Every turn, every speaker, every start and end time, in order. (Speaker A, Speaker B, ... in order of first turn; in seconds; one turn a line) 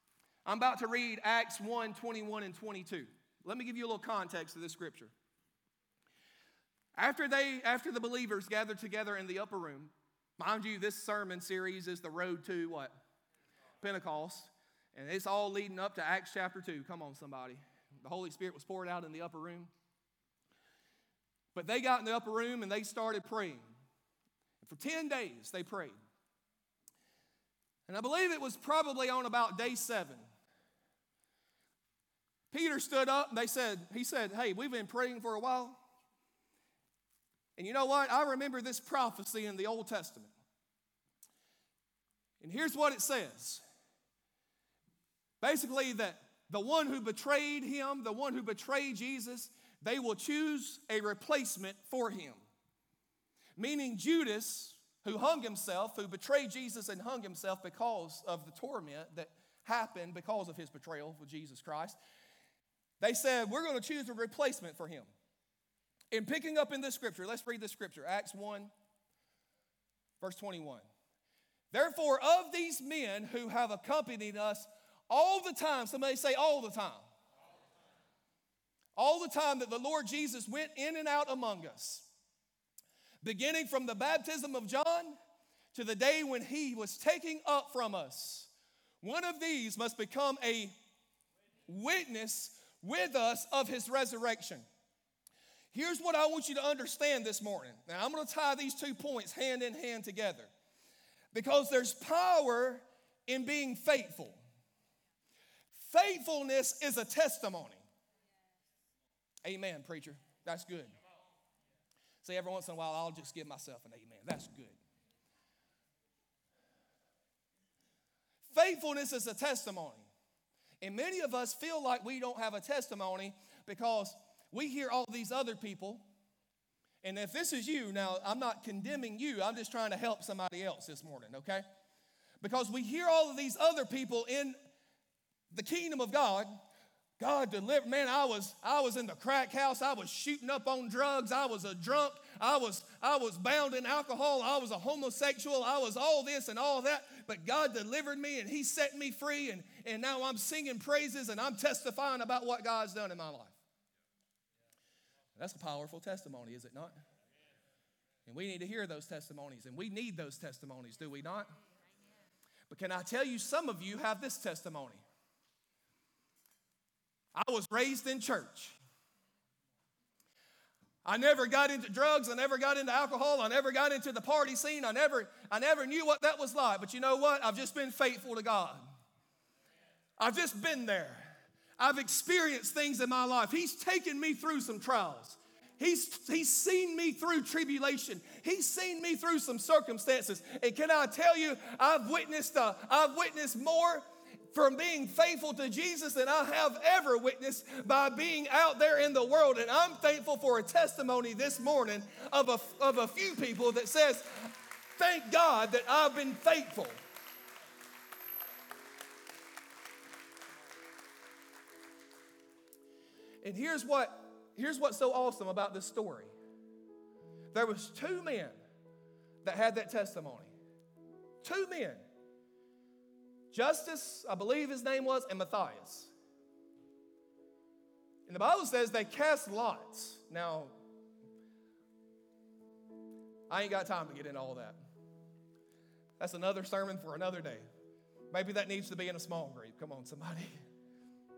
Speaker A: 0.4-5.1
Speaker A: 6.9-12.9
Speaker A: 13.8-19.7
Speaker A: 21.5-23.6
Speaker A: 24.6-25.9
Speaker A: 27.9-30.2
Speaker A: 32.5-35.8
Speaker A: 37.6-40.3
Speaker A: 42.4-43.6
Speaker A: 45.4-52.4
Speaker A: 53.6-62.0
Speaker A: 63.0-65.1
Speaker A: 66.1-68.7
Speaker A: 70.2-70.8
Speaker A: 71.7-77.0
Speaker A: 79.0-82.1
Speaker A: 83.2-85.2
Speaker A: 85.7-88.5
Speaker A: 89.0-90.7
Speaker A: 91.7-94.6
Speaker A: 95.7-100.5
Speaker A: 101.3-104.4
Speaker A: 105.7-107.8
Speaker A: 109.4-110.9
Speaker A: 112.2-114.8
Speaker A: 118.5-120.1
Speaker A: 120.8-126.0
Speaker A: 127.0-131.6
Speaker A: 132.4-134.6
Speaker A: 135.5-136.6
Speaker A: 137.2-153.6
Speaker A: 155.3-156.9
Speaker A: 158.2-161.5
Speaker A: 162.7-165.0
Speaker A: 167.3-168.8
Speaker A: 171.0-178.8
Speaker A: 180.2-206.9
Speaker A: 213.4-216.3
Speaker A: 217.5-218.5
Speaker A: 219.4-220.5
Speaker A: 221.4-222.0
Speaker A: 223.5-226.1
Speaker A: 228.3-230.7
Speaker A: 233.5-234.8
Speaker A: 236.2-237.6
Speaker A: 238.3-240.5